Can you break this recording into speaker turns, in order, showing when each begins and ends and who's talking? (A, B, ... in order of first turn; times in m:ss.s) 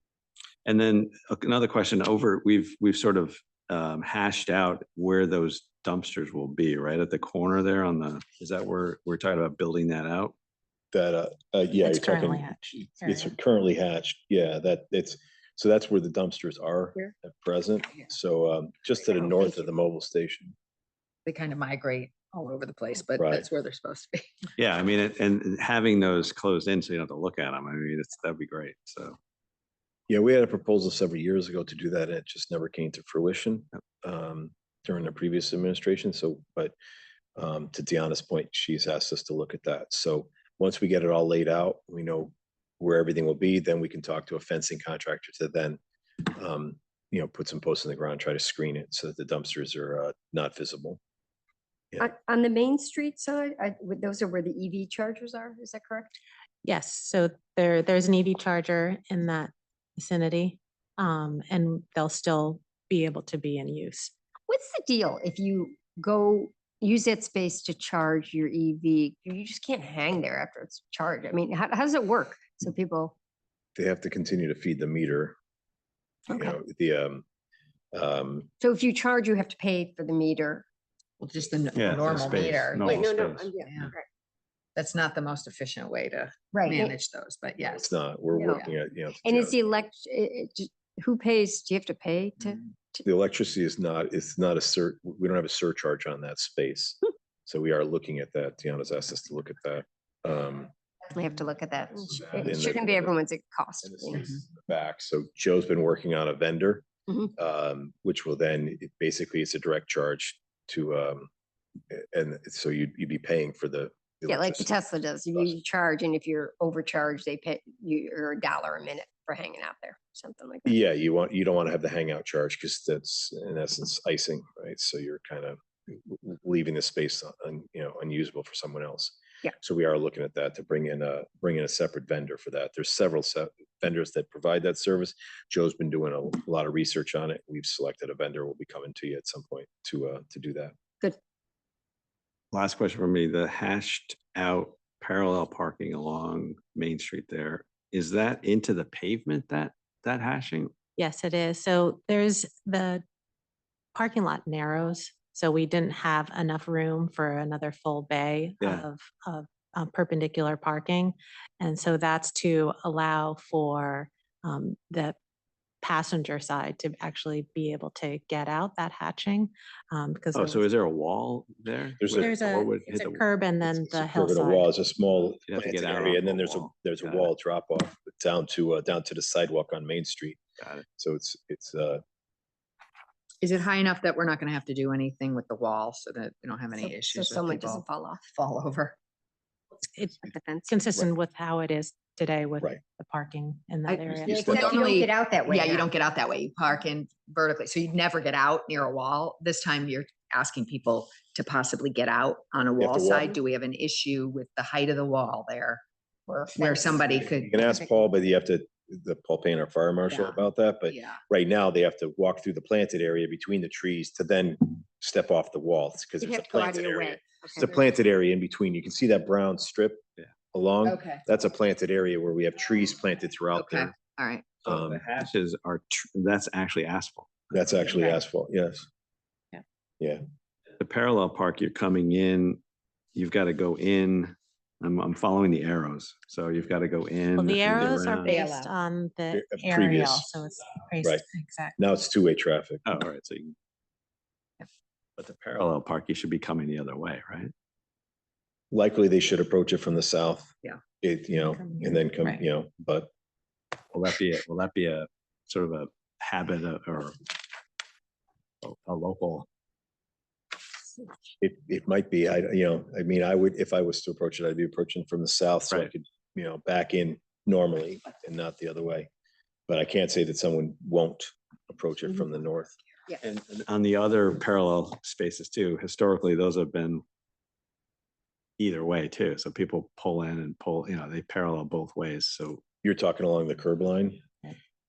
0:00.6-0:10.4 A
0:10.9-0:20.6 B
0:11.8-0:13.3 C
0:19.0-0:19.6 D
0:21.3-0:24.4 D
0:23.2-0:23.4 B
0:24.6-0:29.2 A
0:30.1-0:36.8 B
0:37.4-0:51.0 B
0:52.0-0:56.2 E
0:56.6-1:04.1 C
1:04.5-1:13.2 E
1:13.8-1:15.4 B
1:16.3-1:16.6 E
1:16.3-1:17.2 B
1:17.9-1:18.5 B
1:18.6-1:20.6 E
1:21.2-1:23.9 D
1:21.8-1:23.9 A
1:22.8-1:24.1 E
1:24.8-1:28.7 D
1:26.5-1:27.0 E
1:27.7-1:29.6 B
1:28.3-1:28.6 E
1:29.2-1:33.0 E
1:33.0-1:40.7 B
1:41.0-1:44.3 E
1:42.1-1:43.2 B
1:43.8-1:51.3 B
1:51.9-1:54.8 B
1:54.3-2:00.8 E
2:00.7-2:20.8 B
2:22.5-2:30.7 A
2:31.0-2:33.0 C
2:34.0-2:45.2 C
2:38.6-2:38.9 A
2:45.8-2:50.6 C
2:50.3-2:53.2 A
2:52.0-2:52.3 B
2:52.1-2:54.7 C
2:53.7-3:00.4 B
2:55.5-2:57.3 A
3:00.6-3:00.8 A
3:01.0-3:02.0 B
3:03.4-3:09.0 D
3:06.7-3:08.2 E
3:09.9-3:14.4 C
3:10.2-3:10.8 E
3:13.9-3:25.8 D
3:14.3-3:14.7 B
3:14.3-3:15.9 E
3:22.8-3:23.3 B
3:26.3-3:27.9 E
3:26.5-3:27.6 D
3:27.4-3:43.9 B
3:30.1-3:31.2 D
3:36.2-3:37.8 E
3:40.8-3:41.2 D
3:43.5-3:44.5 D
3:44.6-3:47.5 A
3:44.7-3:45.0 B
3:47.5-3:48.9 B
3:47.9-3:48.2 D
3:50.8-3:52.6 A
3:53.2-3:58.4 A
3:57.4-4:01.8 C
3:58.3-3:58.7 D
3:59.3-4:00.3 B
4:01.8-4:02.8 B
4:02.8-4:03.6 A
4:05.2-4:07.5 A
4:08.7-4:13.1 B
4:11.5-4:12.0 C
4:13.9-4:17.2 A
4:18.6-4:19.5 A
4:21.4-4:29.1 B
4:29.7-4:32.8 B
4:33.2-4:37.0 A
4:38.6-4:42.6 A
4:42.8-4:44.2 B